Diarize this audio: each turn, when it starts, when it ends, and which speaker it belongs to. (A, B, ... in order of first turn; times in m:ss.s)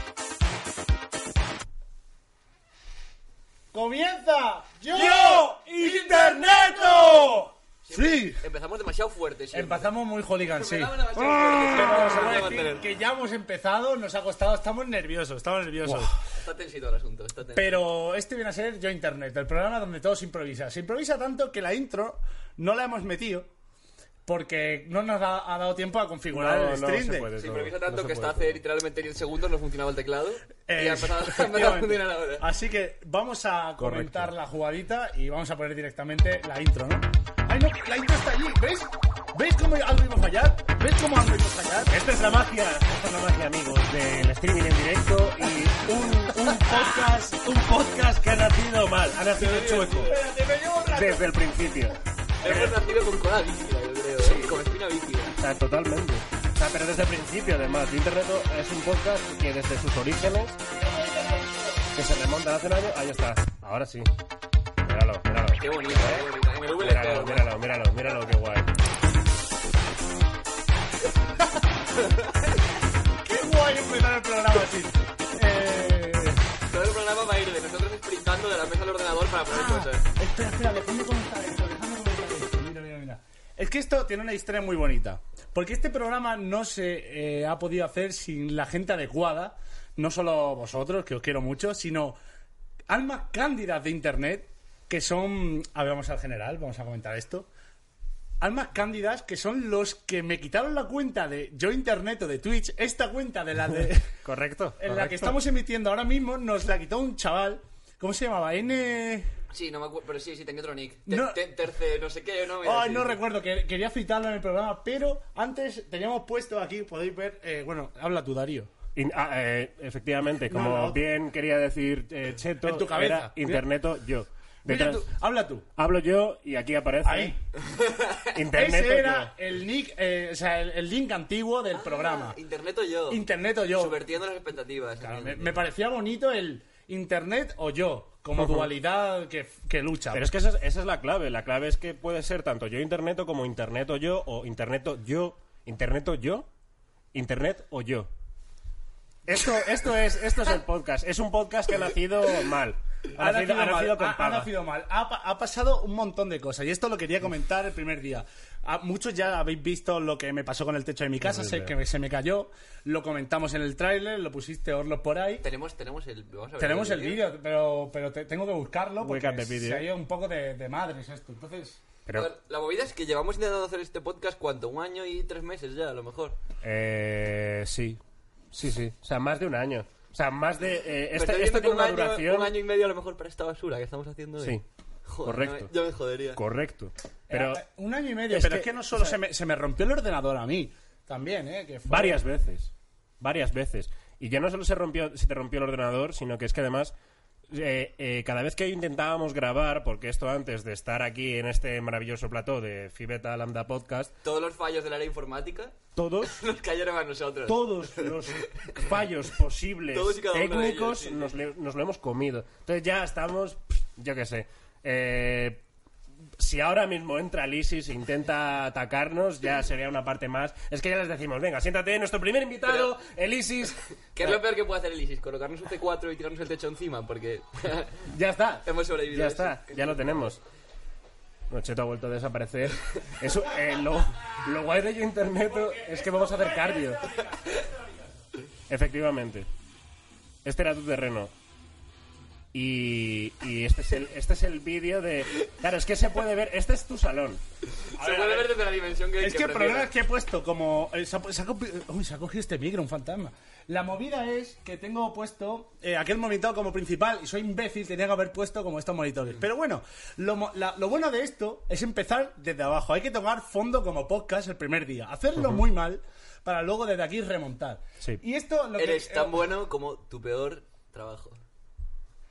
0:03.7-0:08.4 A
0:05.0-0:06.5 B
0:06.3-0:06.5 C
0:07.8-0:12.8 C
0:09.5-0:16.1 A
0:15.8-0:16.1 B
0:16.2-0:17.8 C
0:17.5-0:23.5 A
0:24.2-0:27.3 A
0:26.3-0:28.6 B
0:27.4-0:32.5 C
0:30.7-0:42.0 A
0:33.8-0:34.3 B
0:41.9-0:50.2 B
0:49.4-0:50.1 C
0:50.0-0:51.6 A
0:50.9-0:52.8 B
0:52.4-0:55.3 C
0:54.2-0:54.5 B
0:55.4-1:00.6 B
1:00.8-1:01.7 A
1:01.9-1:04.1 B
1:04.8-1:08.7 B
1:05.6-1:07.5 C
1:13.2-1:16.4 A
1:16.7-1:20.0 C
1:19.5-1:32.2 A
1:32.9-1:37.5 A
1:38.4-1:44.1 A
1:44.2-1:45.4 B
1:44.8-1:49.3 A
1:49.5-1:53.2 C
1:51.1-1:51.4 A
1:52.6-1:58.7 A
1:59.0-2:05.1 B
2:00.5-2:01.0 A
2:02.6-2:03.7 A
2:04.6-2:05.6 A
2:05.8-2:07.4 B
2:07.0-2:07.4 A
2:07.7-2:08.2 C
2:08.3-2:09.3 B
2:08.5-2:12.4 A
2:11.7-2:15.6 C
2:13.1-2:14.0 A
2:15.0-2:20.3 A
2:18.4-2:18.7 B
2:20.1-2:26.5 B
2:27.1-2:28.1 B
2:29.3-2:34.5 B
2:33.2-2:45.4 A
2:41.2-2:41.7 B
2:45.4-2:47.2 C
2:46.6-2:51.8 A
2:49.0-2:49.9 B
2:52.1-2:56.4 C
2:56.6-2:58.0 B
2:58.5-3:02.5 B
3:01.1-3:06.4 C
3:05.2-3:05.7 B
3:06.3-3:07.6 B
3:07.3-3:12.3 A
3:08.3-3:09.1 B
3:11.9-3:16.9 B
3:17.5-3:24.1 B
3:24.2-3:28.9 C
3:26.0-3:26.4 B
3:27.4-3:35.6 B
3:29.9-3:31.3 C
3:36.4-3:44.4 B
3:44.1-3:48.0 C
3:48.1-3:48.6 A
3:48.6-3:50.3 C
3:49.1-3:50.4 B
3:51.5-3:57.3 B
3:55.5-3:57.1 A
3:58.7-3:59.5 B
4:00.4-4:01.3 B
4:02.5-4:07.4 B
4:07.9-4:09.9 C
4:08.0-4:08.6 A
4:09.2-4:29.5 A
4:28.8-4:31.4 C